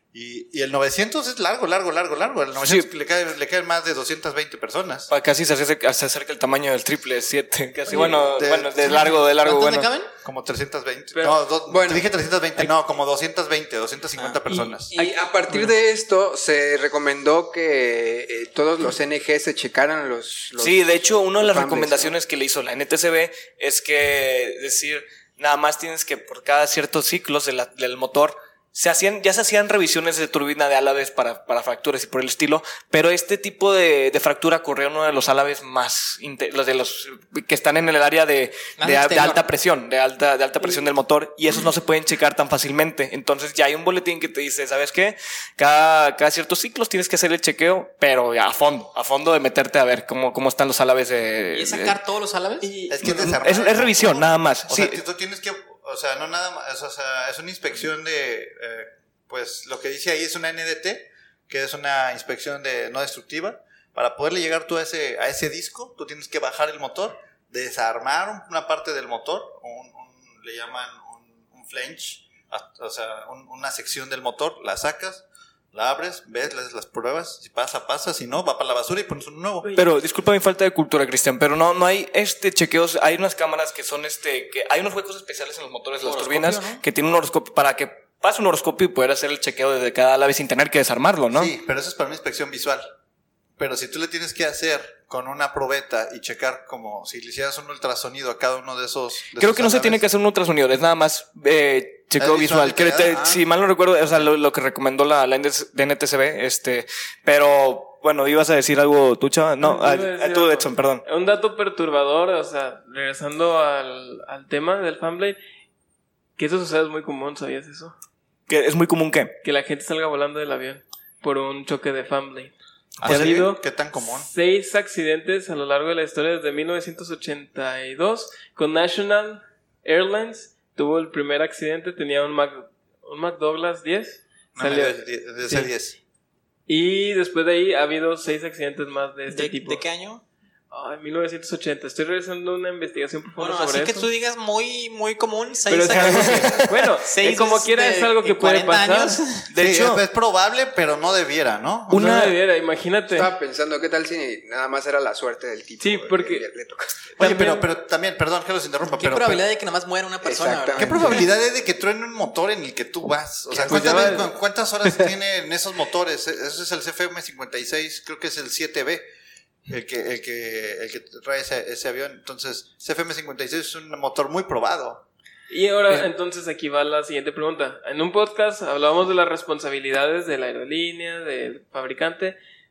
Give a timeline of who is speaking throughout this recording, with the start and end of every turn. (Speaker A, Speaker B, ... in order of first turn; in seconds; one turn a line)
Speaker A: 0.1-5.1
Speaker B: 2.6-2.9
Speaker B: 5.1-9.9
Speaker C: 7.9-8.2
Speaker A: 8.4-9.3
Speaker D: 9.3-10.1
Speaker A: 10.2-14.9
Speaker C: 11.1-11.4
Speaker E: 11.7-12.1
Speaker D: 14.2-15.6
Speaker E: 14.9-22.1
Speaker B: 20.6-52.0
Speaker D: 38.8-39.5
Speaker D: 51.5-52.7
Speaker C: 52.6-53.3
Speaker A: 52.9-79.7
Speaker B: 53.0-55.0
Speaker C: 79.6-79.9
Speaker B: 79.7-91.5
Speaker D: 86.0-86.8
Speaker A: 91.3-92.8
Speaker A: 93.6-100.0
Speaker B: 99.3-111.0
Speaker A: 102.2-103.4
Speaker C: 109.6-115.4
Speaker C: 116.4-117.9
Speaker B: 118.5-119.4
Speaker C: 119.4-135.7
Speaker A: 123.0-124.3
Speaker B: 123.0-123.4
Speaker A: 134.6-136.0
Speaker C: 136.7-139.8
Speaker D: 139.3-140.2
Speaker C: 140.7-144.1
Speaker D: 143.4-146.5
Speaker C: 145.7-149.2
Speaker B: 146.0-146.8
Speaker A: 146.1-146.6
Speaker D: 147.0-149.5
Speaker B: 149.5-150.0
Speaker A: 149.6-152.2
Speaker B: 151.9-152.4
Speaker C: 151.9-153.3
Speaker E: 153.1-156.9
Speaker C: 155.8-156.5
Speaker C: 157.2-157.7
Speaker A: 157.2-159.4
Speaker D: 158.9-161.3
Speaker E: 160.2-161.2
Speaker A: 160.8-169.1
Speaker E: 163.5-164.3
Speaker C: 163.5-164.3
Speaker A: 169.7-175.0
Speaker C: 175.5-182.4